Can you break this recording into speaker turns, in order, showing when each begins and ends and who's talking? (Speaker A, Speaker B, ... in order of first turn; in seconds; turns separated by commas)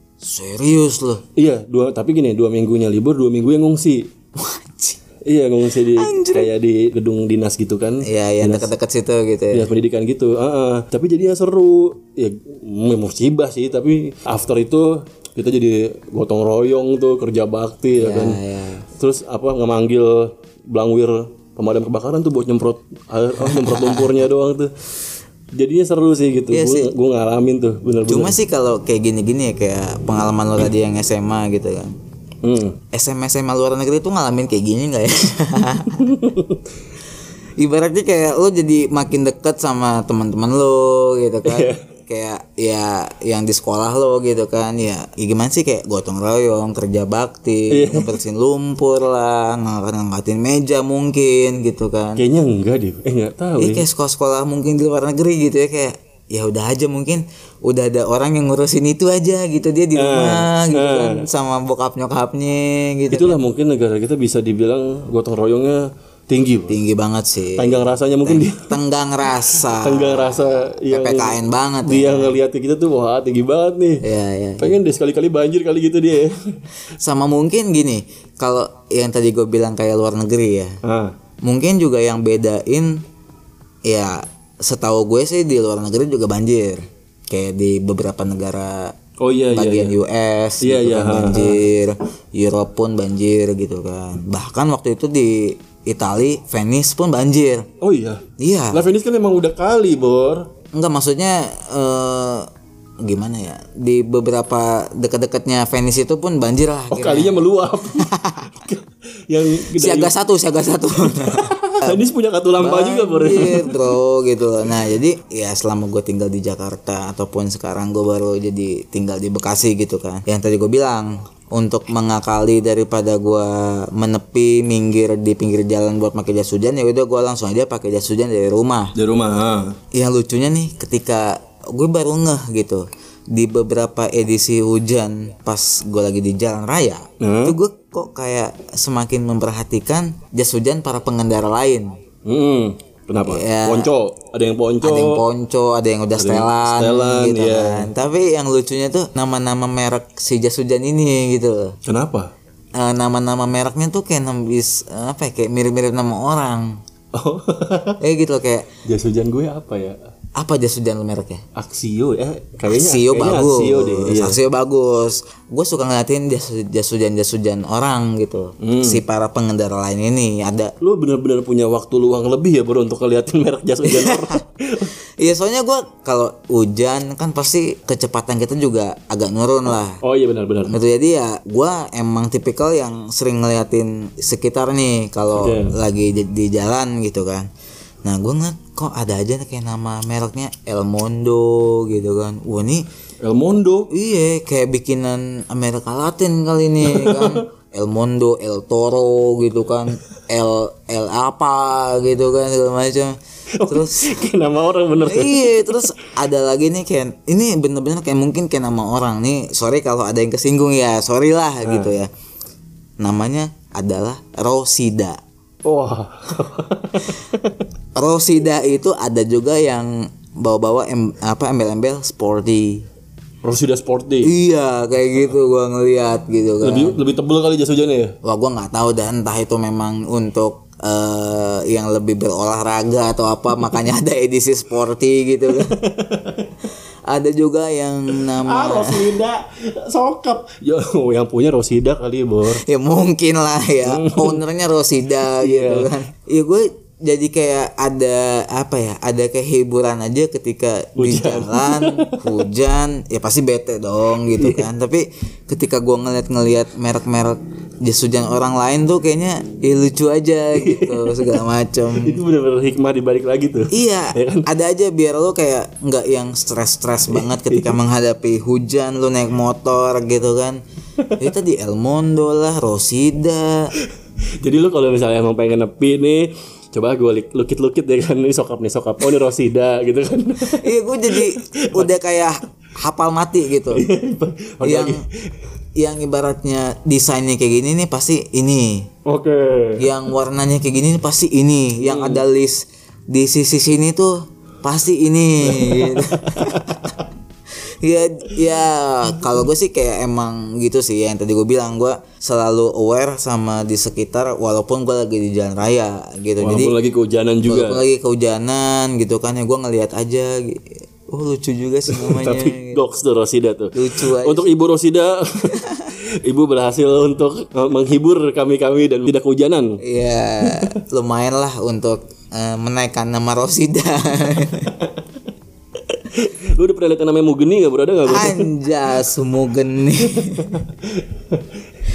Speaker A: 0.2-1.2, Speaker B: 1.4-4.1, Speaker A: 4.3-5.0, Speaker B: 5.2-8.7, Speaker A: 6.0-6.5, Speaker A: 8.0-9.7, Speaker B: 9.5-18.4, Speaker A: 17.9-18.8, Speaker B: 18.9-24.7, Speaker A: 23.4-24.1, Speaker B: 25.5-28.4, Speaker A: 26.5-26.9, Speaker A: 28.1-31.9, Speaker B: 32.4-32.8, Speaker A: 32.9-36.1, Speaker B: 36.0-36.6, Speaker A: 37.6-52.2, Speaker B: 41.4-41.8, Speaker B: 47.7-48.1, Speaker B: 52.2-53.8, Speaker A: 53.6-63.4, Speaker B: 59.9-61.2, Speaker B: 63.1-66.8, Speaker A: 66.7-72.3, Speaker B: 67.6-68.7, Speaker B: 69.5-74.0, Speaker A: 74.0-74.8, Speaker B: 74.6-76.5, Speaker A: 77.0-80.8, Speaker B: 80.8-81.1, Speaker A: 81.4-83.0, Speaker A: 83.8-88.9, Speaker B: 89.2-89.9, Speaker A: 89.5-97.7, Speaker B: 90.6-91.6, Speaker B: 97.8-100.5, Speaker A: 98.4-98.8, Speaker A: 100.7-102.5, Speaker A: 103.0-107.5, Speaker B: 106.9-110.1, Speaker A: 108.0-108.5, Speaker A: 109.7-112.0, Speaker B: 111.0-113.8, Speaker A: 112.6-128.9, Speaker B: 128.9-129.8, Speaker A: 129.9-141.9, Speaker B: 137.2-137.6, Speaker B: 142.2-145.2, Speaker A: 143.2-143.9, Speaker A: 144.8-151.8, Speaker B: 146.2-147.9, Speaker B: 151.8-152.3, Speaker A: 152.7-156.8, Speaker B: 157.1-158.0, Speaker A: 158.0-158.7, Speaker B: 158.8-160.0, Speaker A: 160.3-161.4, Speaker B: 161.5-164.4, Speaker A: 162.7-170.7, Speaker B: 168.6-169.0, Speaker B: 170.8-174.9, Speaker A: 173.8-174.4, Speaker A: 175.2-180.0, Speaker B: 180.0-180.7, Speaker A: 180.7-187.5, Speaker B: 185.3-185.7, Speaker A: 188.0-192.8, Speaker B: 193.2-193.9, Speaker A: 193.9-204.2, Speaker B: 196.8-197.4, Speaker B: 203.6-205.9, Speaker A: 205.0-212.1, Speaker B: 211.6-211.9, Speaker A: 213.0-215.2, Speaker B: 215.6-217.6, Speaker A: 217.9-222.8, Speaker B: 223.4-224.3, Speaker A: 224.2-227.0, Speaker B: 226.6-228.1, Speaker A: 228.2-235.8, Speaker B: 235.6-236.5, Speaker A: 237.1-239.2, Speaker B: 238.4-242.6, Speaker A: 242.5-262.2, Speaker B: 243.8-244.4, Speaker B: 245.3-245.9, Speaker B: 251.0-252.2, Speaker B: 254.3-254.7, Speaker B: 260.5-264.5, Speaker A: 263.7-270.6, Speaker B: 267.1-267.8, Speaker A: 271.2-273.7, Speaker B: 274.4-281.9, Speaker A: 280.4-283.8, Speaker B: 283.7-285.3, Speaker A: 284.6-285.0, Speaker A: 285.8-288.9, Speaker B: 289.1-289.9, Speaker A: 289.8-297.0, Speaker B: 291.8-292.2, Speaker B: 295.4-296.8, Speaker A: 297.5-306.7, Speaker B: 306.4-307.8, Speaker A: 307.5-312.8, Speaker B: 311.9-319.8, Speaker A: 313.7-314.5, Speaker A: 315.5-315.8, Speaker A: 319.8-324.7, Speaker B: 320.4-320.7, Speaker B: 324.8-325.0, Speaker B: 325.8-328.5, Speaker A: 328.1-330.6, Speaker B: 330.2-331.5